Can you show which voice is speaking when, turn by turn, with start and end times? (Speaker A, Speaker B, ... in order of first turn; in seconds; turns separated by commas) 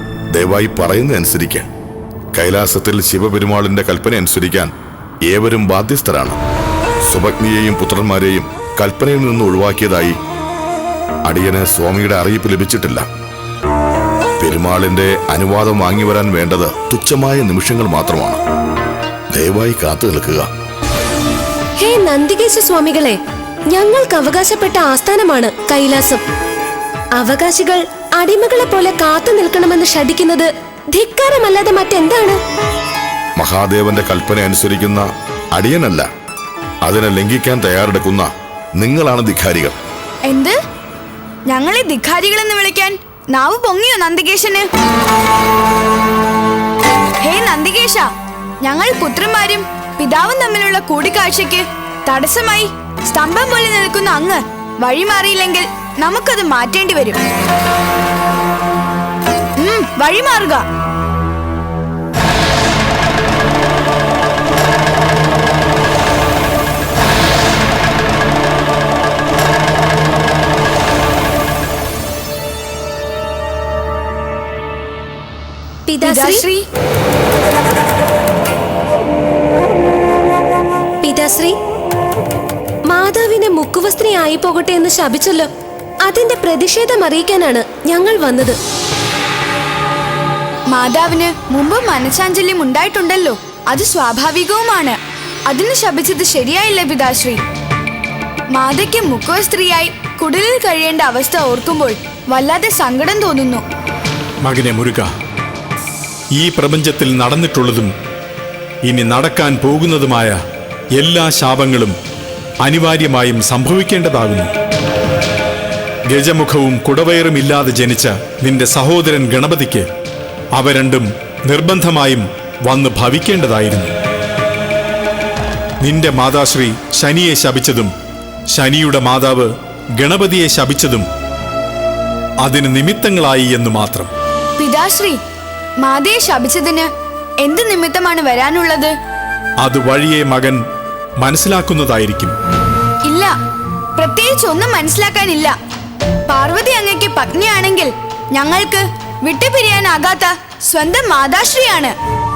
Speaker A: 0.3-1.7, Speaker A: 2.3-4.7, Speaker A: 5.2-6.4, Speaker A: 7.1-10.2, Speaker A: 11.2-13.1, Speaker A: 14.4-18.4, Speaker A: 19.3-20.5, Speaker B: 21.8-23.2, Speaker B: 23.7-26.2, Speaker B: 27.2-32.4, Speaker A: 33.4-36.1, Speaker A: 36.8-39.8, Speaker C: 40.3-40.6, Speaker C: 41.5-44.7, Speaker C: 47.2-48.1, Speaker C: 48.6-57.2, Speaker C: 59.6-60.6, Speaker B: 75.9-76.5, Speaker C: 76.0-76.7, Speaker B: 81.0-81.6, Speaker B: 82.9-85.5, Speaker B: 86.0-88.6, Speaker C: 90.7-97.4, Speaker C: 98.5-103.6, Speaker D: 104.5-105.1, Speaker D: 106.3-107.9, Speaker D: 108.8-110.4, Speaker D: 111.0-112.0, Speaker D: 112.6-114.5, Speaker D: 116.1-119.9, Speaker D: 120.5-123.9, Speaker D: 125.8-127.9, Speaker D: 128.5-131.1, Speaker D: 132.4-134.1, Speaker C: 134.6-135.2, Speaker C: 135.8-136.9, Speaker C: 137.4-138.9, Speaker D: 139.6-140.6, Speaker D: 141.2-142.3, Speaker C: 143.1-143.3, Speaker C: 144.0-145.5, Speaker C: 146.3-151.9